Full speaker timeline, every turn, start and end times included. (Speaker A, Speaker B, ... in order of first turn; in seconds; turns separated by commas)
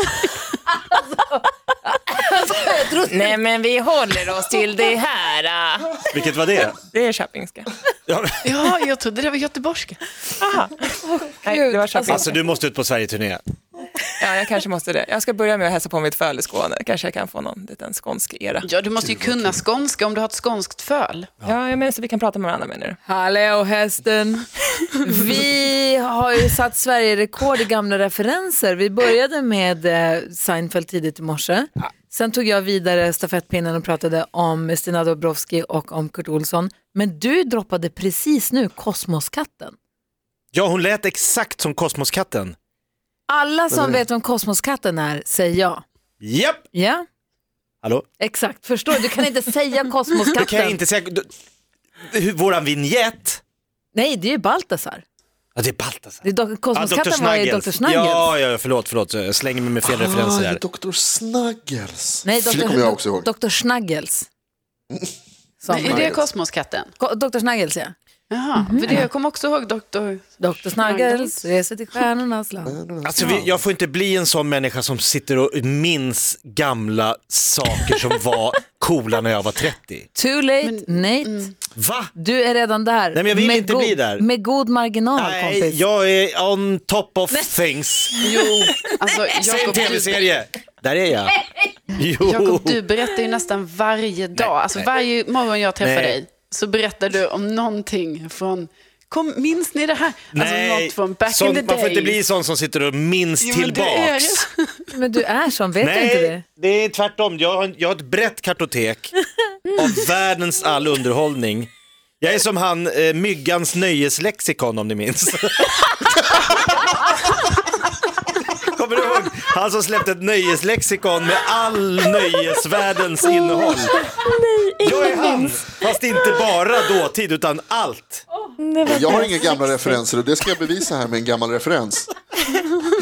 Speaker A: 0.7-3.3, Speaker B: 3.1-6.1, Speaker C: 6.1-6.8, Speaker B: 6.7-7.7, Speaker C: 8.1-8.4, Speaker D: 8.4-10.0, Speaker B: 10.4-12.4, Speaker A: 11.0-12.3, Speaker C: 12.0-13.4, Speaker B: 14.2-18.6, Speaker D: 18.6-21.3, Speaker E: 19.0-19.5, Speaker B: 21.4-23.0, Speaker A: 23.1-39.8, Speaker C: 40.5-42.5, Speaker A: 43.3-45.8, Speaker E: 43.7-44.0, Speaker C: 46.2-46.6, Speaker A: 46.7-47.0, Speaker A: 48.2-50.8, Speaker C: 50.3-51.3, Speaker C: 52.1-53.4, Speaker A: 53.9-55.0, Speaker C: 55.5-60.6, Speaker A: 56.2-58.3, Speaker E: 59.8-63.3, Speaker A: 62.2-64.3, Speaker A: 65.6-66.2, Speaker D: 65.7-66.9, Speaker E: 65.8-66.2, Speaker A: 67.0-67.9, Speaker D: 68.3-71.4, Speaker A: 68.5-69.1, Speaker A: 70.4-72.8, Speaker E: 72.7-73.6, Speaker C: 73.0-80.1, Speaker A: 80.1-81.5, Speaker D: 80.6-81.5, Speaker C: 81.7-82.1, Speaker A: 82.1-85.8, Speaker C: 83.1-84.2, Speaker C: 85.2-88.2, Speaker D: 88.2-90.3, Speaker C: 89.4-92.8, Speaker D: 92.2-102.2, Speaker C: 94.3-94.9, Speaker C: 95.8-96.2, Speaker C: 100.3-104.4, Speaker D: 103.4-104.9, Speaker A: 104.9-106.4, Speaker C: 105.8-109.1, Speaker C: 109.7-111.7, Speaker C: 112.2-117.1, Speaker C: 118.7-123.9, Speaker F: 123.4-125.5, Speaker C: 124.8-128.2, Speaker F: 128.6-129.8, Speaker E: 128.8-132.1